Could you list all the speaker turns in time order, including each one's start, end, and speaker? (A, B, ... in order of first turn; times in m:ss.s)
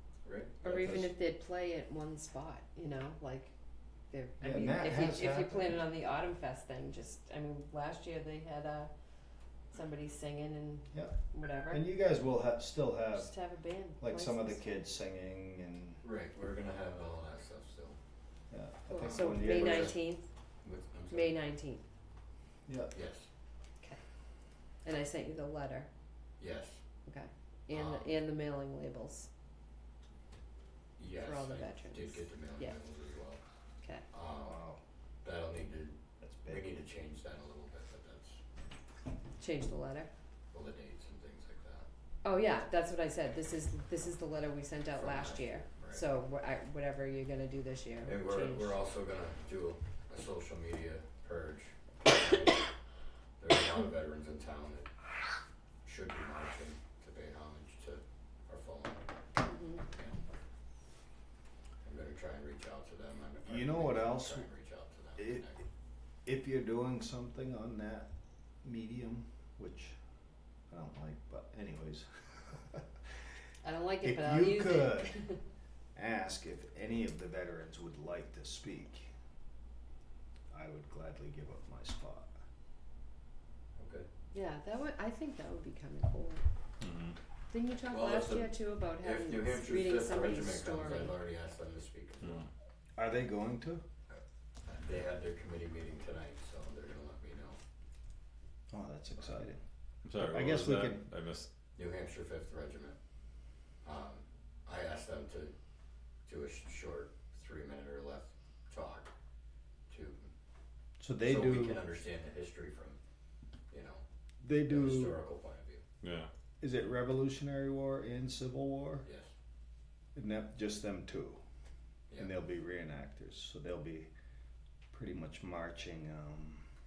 0:00.2-0:00.6 A
0:00.6-0:01.2 B
0:00.6-0:03.5 C
0:04.1-0:08.9 C
0:04.4-0:05.8 B
0:09.7-0:11.8 C
0:10.9-0:13.3 B
0:13.1-0:14.6 C
0:14.0-0:16.0 B
0:16.0-0:18.0 A
0:18.5-0:20.0 B
0:18.9-0:20.3 C
0:19.0-0:20.0 A
0:20.6-0:21.4 A
0:21.1-0:21.8 C
0:22.7-0:22.9 B
0:22.9-0:23.3 A
0:24.8-0:25.9 C
0:26.4-0:26.8 A
0:27.1-0:29.3 C
0:27.7-0:28.1 A
0:31.0-0:33.4 A
0:31.1-0:32.8 C
0:34.1-0:34.6 A
0:34.4-0:34.8 B
0:35.2-0:36.0 A
0:36.2-0:36.7 B
0:36.5-0:38.4 A
0:39.4-0:40.1 C
0:40.5-0:41.9 A
0:42.2-0:48.8 C
0:45.0-0:46.1 A
0:48.0-0:52.6 A
0:53.4-0:54.9 A
0:55.8-0:59.1 A
0:59.4-0:59.8 C
0:59.9-1:00.2 A
1:01.8-1:05.6 A
1:03.4-1:04.4 B
1:05.2-1:05.5 B
1:06.2-1:08.1 B
1:08.6-1:10.0 B
1:10.7-1:12.8 B
1:13.6-1:15.4 C
1:14.0-1:15.1 B
1:16.0-1:19.1 B
1:20.5-1:22.3 B
1:23.8-1:24.1 A
1:24.3-1:26.4 C
1:26.8-1:27.2 D
1:27.5-1:31.2 C
1:27.8-1:32.5 A
1:32.2-1:32.5 D
1:33.0-1:33.8 B
1:34.1-1:37.6 A
1:38.7-1:39.6 B
1:40.0-1:41.5 D
1:40.1-1:41.0 B
1:41.8-1:43.0 A
1:43.8-1:45.5 A
1:46.3-1:49.1 A
1:49.9-1:50.3 A
1:51.0-1:51.8 B
1:51.2-1:53.0 A
1:53.7-1:54.0 A
1:54.4-1:55.2 B
1:54.6-1:55.8 A
1:56.0-1:56.3 D
1:56.6-1:59.0 B
1:59.0-1:59.3 A
2:00.2-2:01.4 B
2:02.2-2:04.1 B
2:04.9-2:06.6 B